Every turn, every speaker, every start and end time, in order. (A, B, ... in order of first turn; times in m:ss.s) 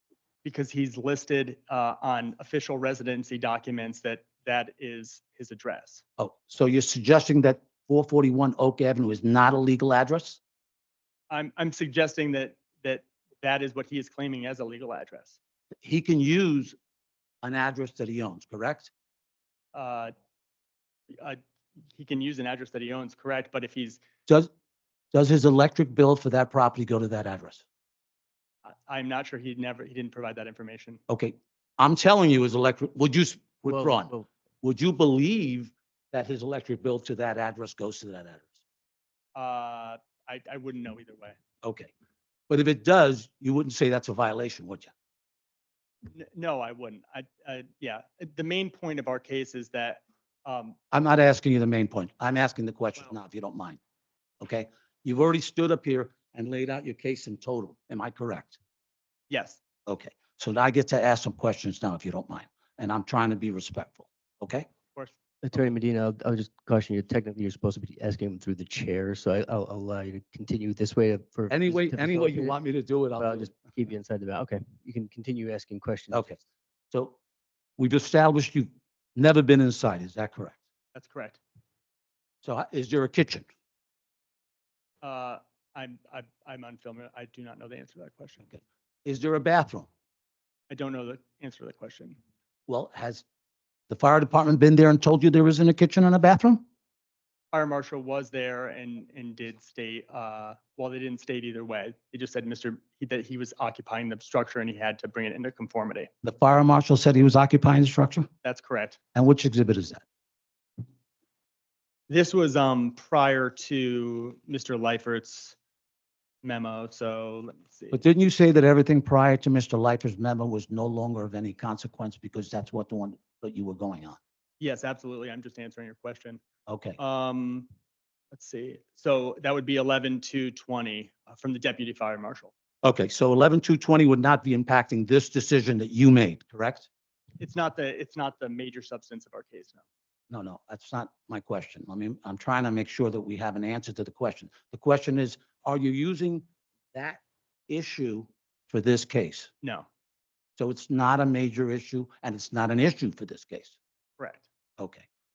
0:00.4-0:06.0 A
0:06.2-0:10.4 B
0:11.3-0:15.4 A
0:15.8-0:16.8 B
0:17.4-0:18.9 B
0:19.7-0:20.1 A
0:21.1-0:21.4 A
0:21.9-0:24.0 A
0:25.1-0:27.6 B
0:28.6-0:31.0 A
0:31.1-0:38.6 B
0:33.7-0:34.3 C
0:39.4-0:41.4 A
0:41.6-0:41.9 B
0:42.5-0:44.9 B
0:46.1-0:50.8 A
0:50.9-0:53.8 B
0:54.4-0:58.6 B
0:59.3-0:59.6 A
0:59.9-1:04.7 B
1:05.4-1:12.6 C
1:11.5-1:13.6 B
1:13.2-1:16.4 C
1:16.1-1:16.4 B
1:16.9-1:17.2 B
1:17.8-1:20.6 B
1:20.9-1:21.4 A
1:22.4-1:23.5 B
1:25.0-1:28.4 A
1:28.5-1:29.9 B
1:30.7-1:32.2 A
1:32.7-1:33.2 B
1:33.9-1:36.6 B
1:37.5-1:46.1 A
1:46.2-1:48.3 B
1:48.4-1:49.0 A
1:49.2-1:50.0 B
1:52.1-1:55.6 A
1:56.4-1:58.0 A
1:57.9-2:04.2 B
2:04.6-2:06.4 A
2:06.7-2:07.0 B
2:07.0-2:07.7 A
2:08.3-2:12.5 A
2:12.8-2:16.9 B
2:17.4-2:19.8 A
2:20.3-2:29.5 B
2:30.6-2:33.8 B
2:34.2-2:34.4 A
2:34.8-2:35.0 B